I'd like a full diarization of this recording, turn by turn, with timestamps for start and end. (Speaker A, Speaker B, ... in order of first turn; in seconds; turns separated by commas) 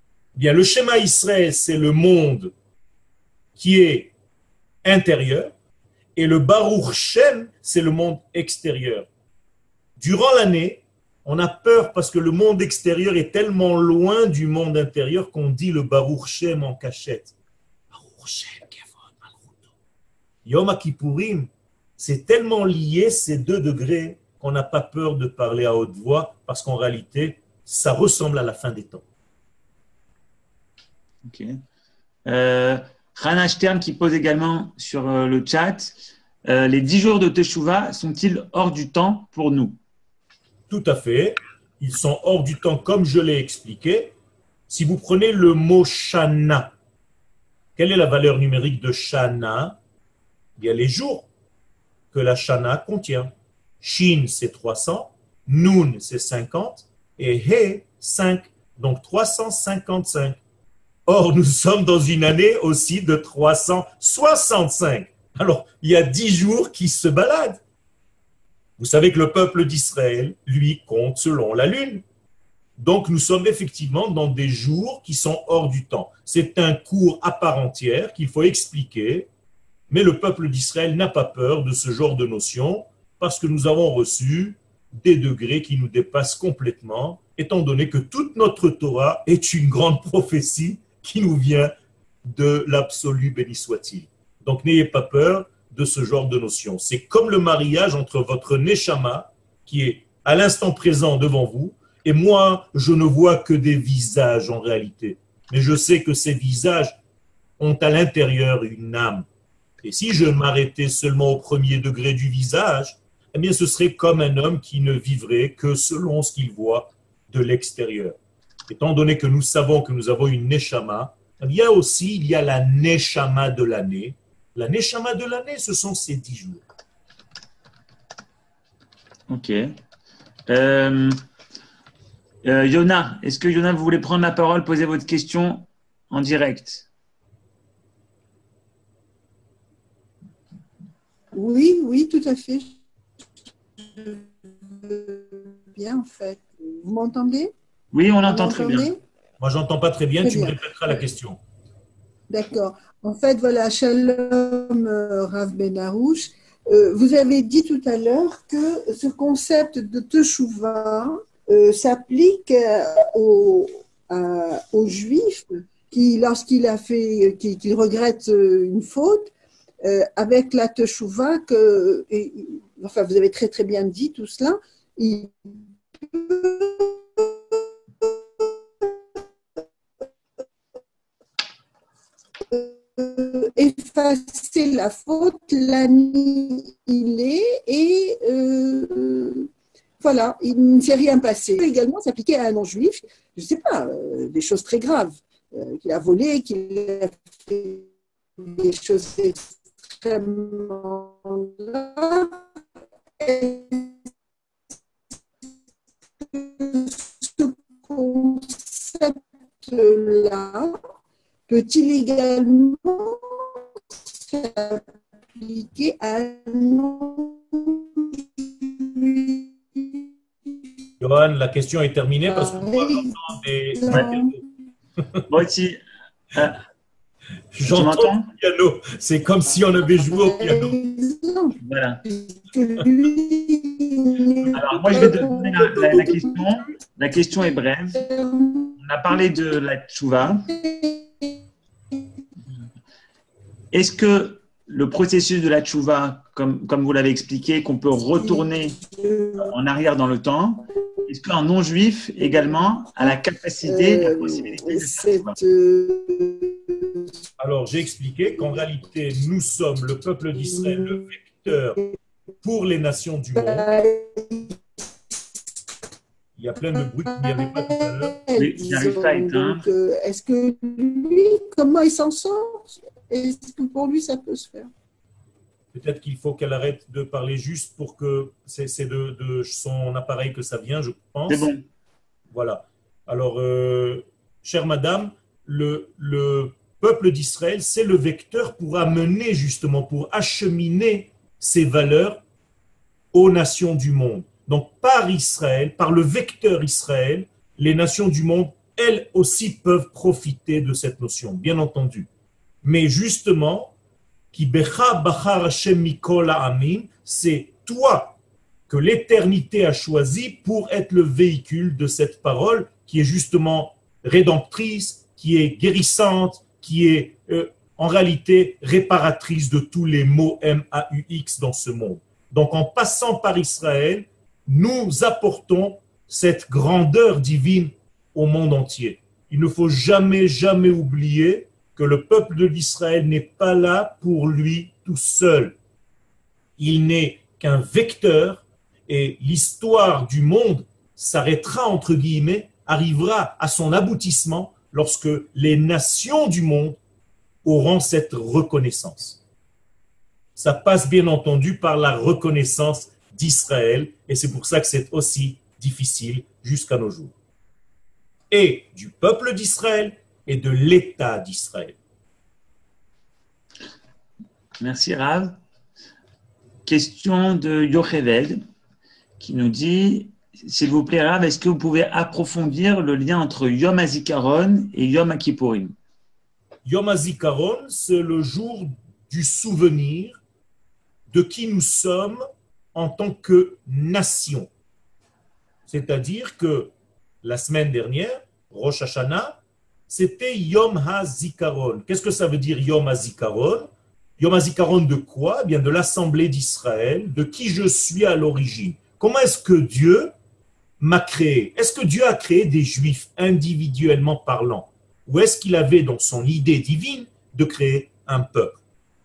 Speaker A: 0.3-2.5, Speaker A: 3.6-4.1, Speaker A: 4.8-5.5, Speaker A: 6.2-9.1, Speaker A: 10.0-17.3, Speaker A: 17.9-19.6, Speaker A: 20.4-29.0, Speaker B: 31.2-31.6, Speaker B: 32.3-39.8, Speaker A: 40.7-44.1, Speaker A: 44.7-46.7, Speaker A: 47.8-49.8, Speaker A: 50.6-51.3, Speaker A: 52.1-60.4, Speaker A: 61.1-67.6, Speaker A: 68.8-72.0, Speaker A: 72.8-79.3, Speaker A: 79.9-91.7, Speaker A: 92.2-107.0, Speaker A: 107.6-109.3, Speaker A: 109.8-118.2, Speaker A: 118.7-126.6, Speaker B: 129.3-129.7, Speaker B: 130.5-131.2, Speaker B: 132.4-136.9, Speaker C: 141.3-142.8, Speaker C: 143.8-147.5, Speaker B: 147.9-148.9, Speaker C: 148.2-149.0, Speaker A: 149.4-151.4, Speaker C: 150.2-150.6, Speaker C: 152.3-175.5, Speaker C: 176.1-178.8, Speaker C: 182.5-189.5, Speaker C: 190.0-197.9, Speaker C: 198.4-202.4, Speaker C: 203.2-203.9, Speaker C: 206.3-210.8, Speaker C: 211.5-220.1, Speaker A: 221.0-224.4, Speaker C: 222.3-223.2, Speaker C: 223.8-224.3, Speaker B: 225.3-225.8, Speaker B: 226.3-226.6, Speaker A: 227.5-230.8, Speaker B: 227.7-228.3, Speaker C: 230.2-236.6, Speaker B: 231.6-232.0, Speaker B: 234.5-238.0, Speaker C: 237.9-239.4, Speaker B: 238.8-240.5, Speaker C: 240.5-241.3, Speaker B: 243.7-248.8, Speaker C: 248.2-249.5, Speaker B: 249.4-255.4, Speaker C: 253.0-257.1, Speaker A: 257.4-261.8, Speaker A: 262.4-263.7, Speaker C: 263.4-264.6, Speaker A: 266.4-268.2, Speaker C: 266.7-274.7, Speaker B: 268.4-269.7, Speaker A: 275.7-281.5, Speaker B: 281.3-281.6, Speaker A: 282.3-292.2, Speaker A: 293.1-302.1, Speaker A: 302.6-303.7, Speaker A: 304.3-308.2, Speaker A: 308.7-335.6, Speaker A: 336.6-346.8, Speaker A: 347.4-349.2, Speaker A: 350.4-357.1, Speaker A: 358.3-361.8, Speaker B: 364.6-365.4, Speaker B: 366.6-368.4, Speaker B: 369.2-375.7, Speaker A: 376.6-380.2, Speaker A: 381.1-382.2, Speaker A: 382.7-384.5, Speaker A: 385.7-386.7, Speaker A: 387.2-400.1, Speaker A: 400.8-408.6